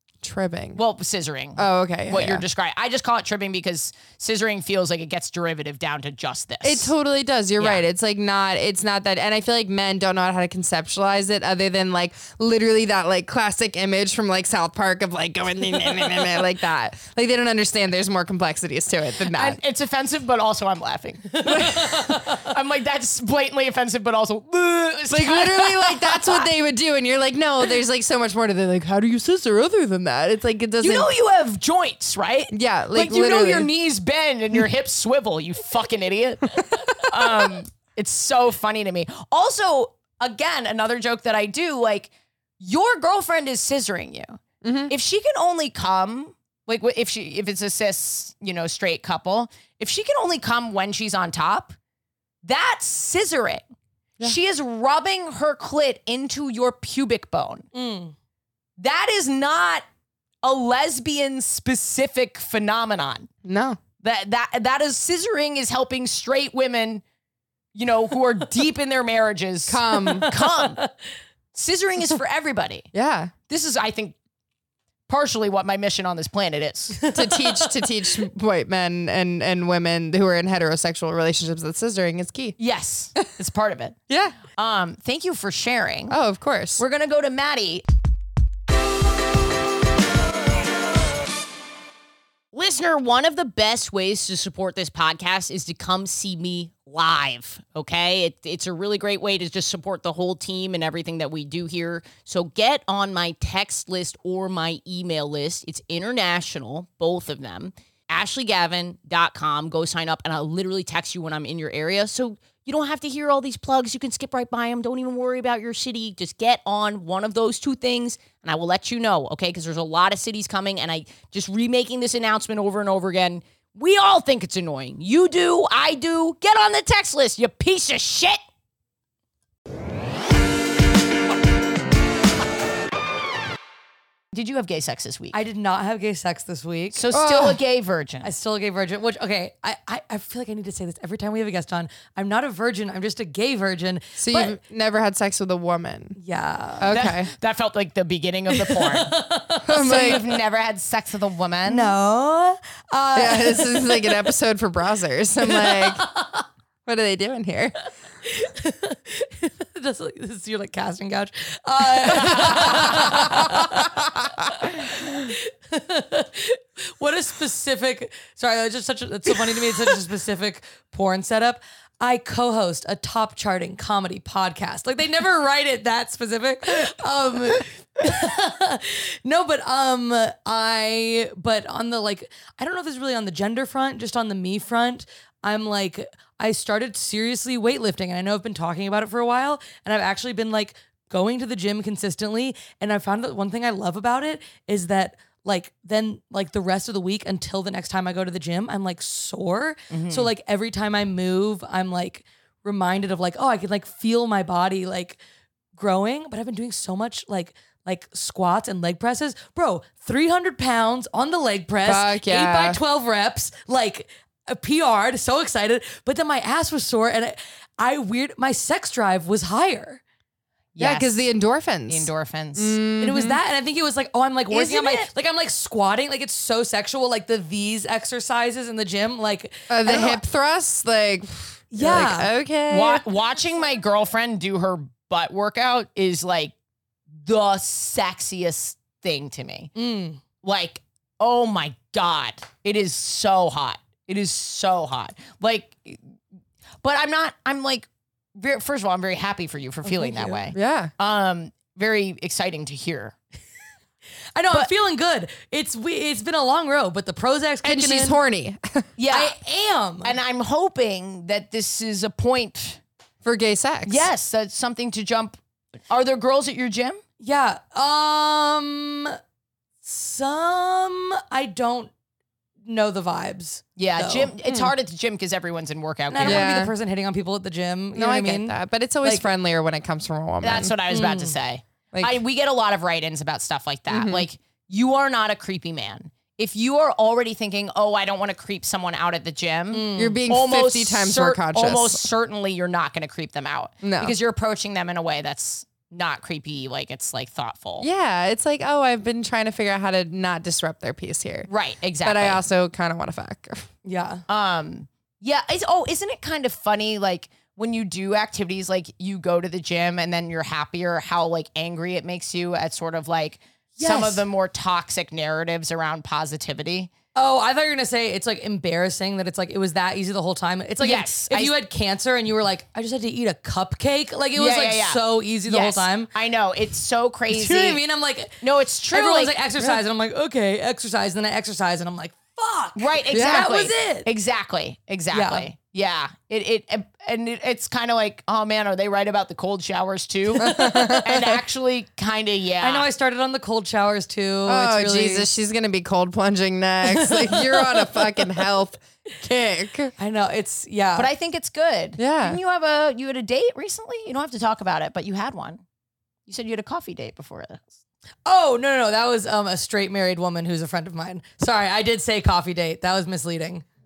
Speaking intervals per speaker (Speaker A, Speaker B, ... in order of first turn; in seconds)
Speaker A: 0.2-0.8, 1.6-2.5, 6.6-19.6, 21.5-22.1, 25.1-31.1, 32.5-33.7, 37.0-37.5, 44.6-44.9, 63.4-63.8, 69.7-70.3, 72.9-73.3, 77.1-82.6, 84.1-84.4, 86.1-86.8, 137.1-137.6, 144.2-146.2, 146.8-147.3, 149.7-150.2, 153.2-156.1, 156.9-157.8, 162.1-163.5, 211.8-212.8, 220.8-223.4, 229.7-233.0, 250.5-250.9, 257.6-258.9, 263.2-264.1, 274.5-274.7, 276.2-276.7, 277.9-280.8, 281.9-282.2, 283.9-284.3, 289.9-292.0, 293.8-294.1, 297.8-301.5, 302.0-303.7, 333.1-333.5, 340.4-341.4, 344.5-349.9, 352.0-352.4
Speaker B: 0.8-6.9, 7.6-7.8, 19.3-26.5, 30.8-51.8, 52.4-53.6, 54.2-57.7, 58.8-59.9, 60.4-63.3, 64.0-67.0, 67.8-70.8, 71.5-72.9, 73.5-74.2, 75.1-77.0, 82.6-84.0, 84.5-86.2, 86.8-87.8, 92.5-128.4, 134.3-135.4, 136.9-138.3, 146.9-149.1, 149.8-151.9, 199.9-200.3, 220.8-221.2, 221.9-222.8, 224.5-225.1, 232.7-236.5, 237.2-239.7, 240.4-246.0, 246.8-253.2, 259.0-259.4, 260.0-262.8, 263.9-265.4, 265.9-267.0, 273.8-276.5, 280.4-297.9, 301.5-302.4, 304.3-316.9, 320.8-321.5, 324.4-327.8, 328.4-329.4, 332.8-342.9, 351.0-355.6, 356.3-357.7
Speaker C: 21.5-22.1, 57.7-58.1, 70.0-70.9, 77.0-77.7, 135.3-137.0, 138.2-144.6, 146.2-146.9, 148.5-150.2, 151.7-154.3, 155.4-156.4, 158.3-205.2, 205.8-220.0, 223.0-230.2, 231.7-232.3, 239.8-240.2, 249.9-250.4, 254.3-258.2, 259.1-260.1, 267.2-269.2, 269.8-271.9, 272.6-274.3, 276.1-279.3, 280.9-281.4, 289.7-290.2, 303.9-304.2, 313.8-314.2, 317.2-326.1, 327.3-334.1, 335.1-335.5, 340.4-341.0, 342.6-345.3, 346.8-348.4, 350.0-351.1, 358.3-363.6